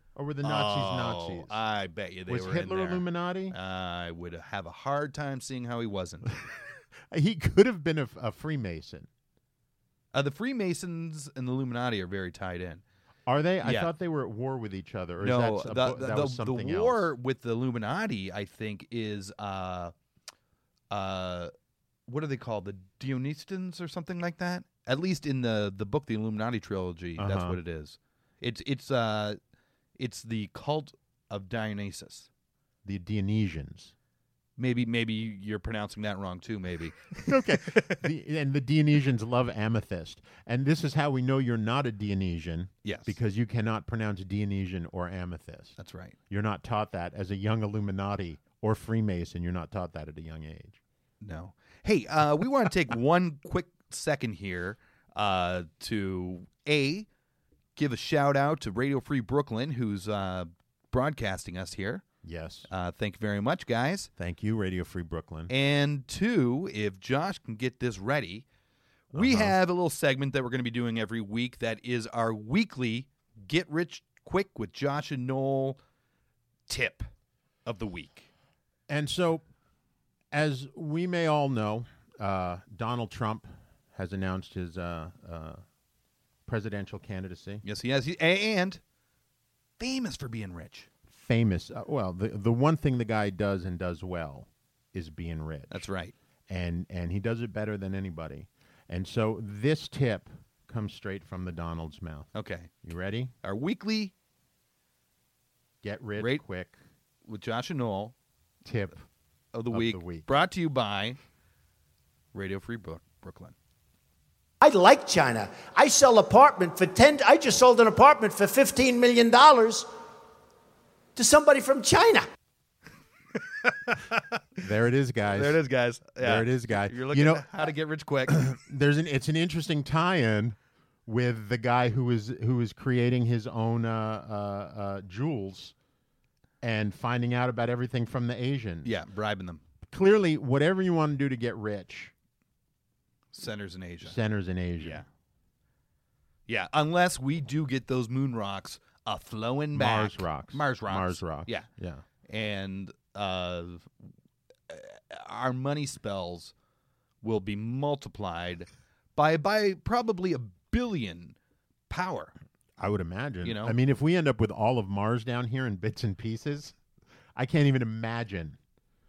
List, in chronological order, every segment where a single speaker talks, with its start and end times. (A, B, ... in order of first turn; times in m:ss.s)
0:00.2-0:01.6 A
0:00.4-0:06.3 B
0:02.3-0:03.6 A
0:06.4-0:09.1 A
0:10.1-0:12.8 B
0:13.3-0:17.1 A
0:13.6-0:13.9 B
0:15.2-0:19.9 B
0:20.9-0:21.5 B
0:22.1-0:29.4 B
0:27.2-0:27.6 A
0:30.0-0:32.3 B
0:32.8-0:33.9 A
0:34.6-0:38.1 B
0:37.2-0:45.8 A
0:42.8-0:43.2 B
0:45.8-0:46.2 B
0:46.3-0:50.8 A
0:51.2-0:57.1 B
0:57.8-1:02.0 B
1:02.2-1:02.7 A
1:02.7-1:04.1 B
1:04.2-1:05.5 A
1:05.5-1:08.5 B
1:09.1-1:09.6 A
1:09.1-1:15.8 B
1:16.7-1:17.1 B
1:17.6-1:18.3 B
1:18.9-1:19.4 A
1:20.3-1:25.6 A
1:26.5-1:27.6 A
1:27.6-1:28.8 B
1:29.8-1:30.9 B
1:31.1-1:35.9 A
1:35.7-1:36.1 B
1:36.5-1:42.3 A
1:42.3-1:42.7 B
1:42.8-1:43.3 A
1:43.4-1:44.1 B
1:45.8-1:46.8 A
1:47.2-1:48.2 B
1:48.6-1:49.0 A
1:49.5-1:51.2 B
1:49.7-1:50.3 A
1:52.3-1:53.6 B
1:54.6-1:59.9 C
2:01.2-2:02.2 C
2:03.4-2:04.6 B
2:04.6-2:05.6 A
2:05.3-2:08.5 B
2:06.2-2:07.7 A
2:08.3-2:15.7 A
2:16.6-2:19.0 A
2:18.8-2:19.6 B
2:19.8-2:22.1 A
2:23.3-2:24.2 B
2:24.0-2:25.0 A
2:26.5-2:31.7 B
2:29.7-2:32.0 A
2:32.2-2:33.9 B
2:34.7-2:36.5 B
2:37.2-2:41.4 B
2:41.9-2:42.3 B
2:42.8-2:46.8 A
2:43.4-2:43.8 B
2:47.4-2:48.6 A